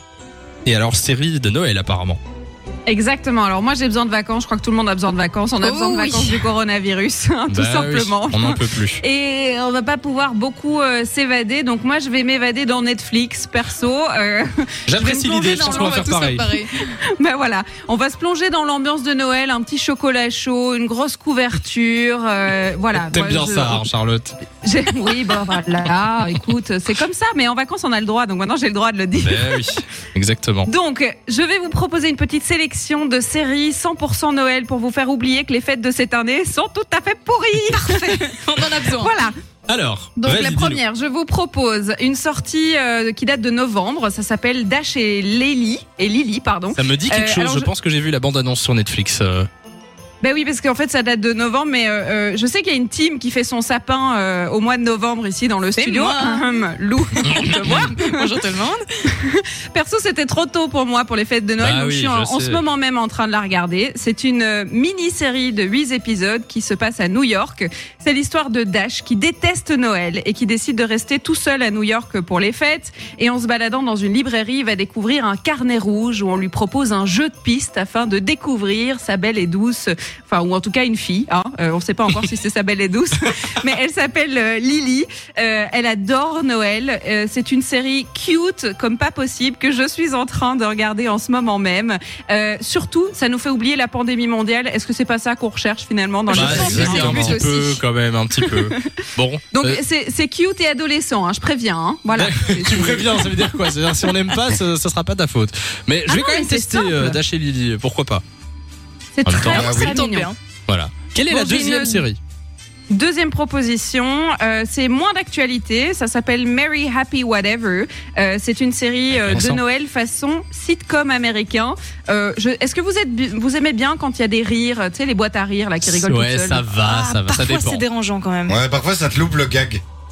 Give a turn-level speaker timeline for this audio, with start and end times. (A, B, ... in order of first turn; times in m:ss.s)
0:00.6-0:02.2 A
0:02.9-0:16.2 B
0:05.6-0:06.5 C
0:07.5-0:09.0 A
0:14.9-0:16.5 A
0:15.4-0:16.9 C
0:17.0-0:23.8 B
0:22.9-0:24.4 A
0:24.6-0:29.7 B
0:29.2-0:30.7 A
0:30.7-0:39.3 B
0:37.8-0:39.1 C
0:39.7-0:40.8 A
0:40.2-0:47.7 B
0:46.7-0:49.5 A
0:50.2-0:58.4 B
0:55.8-0:56.6 C
0:57.2-0:58.8 C
0:59.1-1:37.8 B
1:01.6-1:02.6 A
1:36.3-1:37.4 D
1:36.3-1:39.8 A
1:38.4-1:43.6 B
1:42.1-1:48.2 A
1:46.1-1:47.2 B
1:49.2-1:50.3 B
1:49.2-1:49.6 A
1:49.5-1:50.0 D
1:49.5-1:50.4 C
1:50.7-1:52.2 A
1:51.2-1:52.1 B
1:52.9-2:06.7 B
1:59.1-1:59.6 A
2:05.8-2:07.8 A
2:06.8-2:08.6 C
2:08.5-2:09.8 D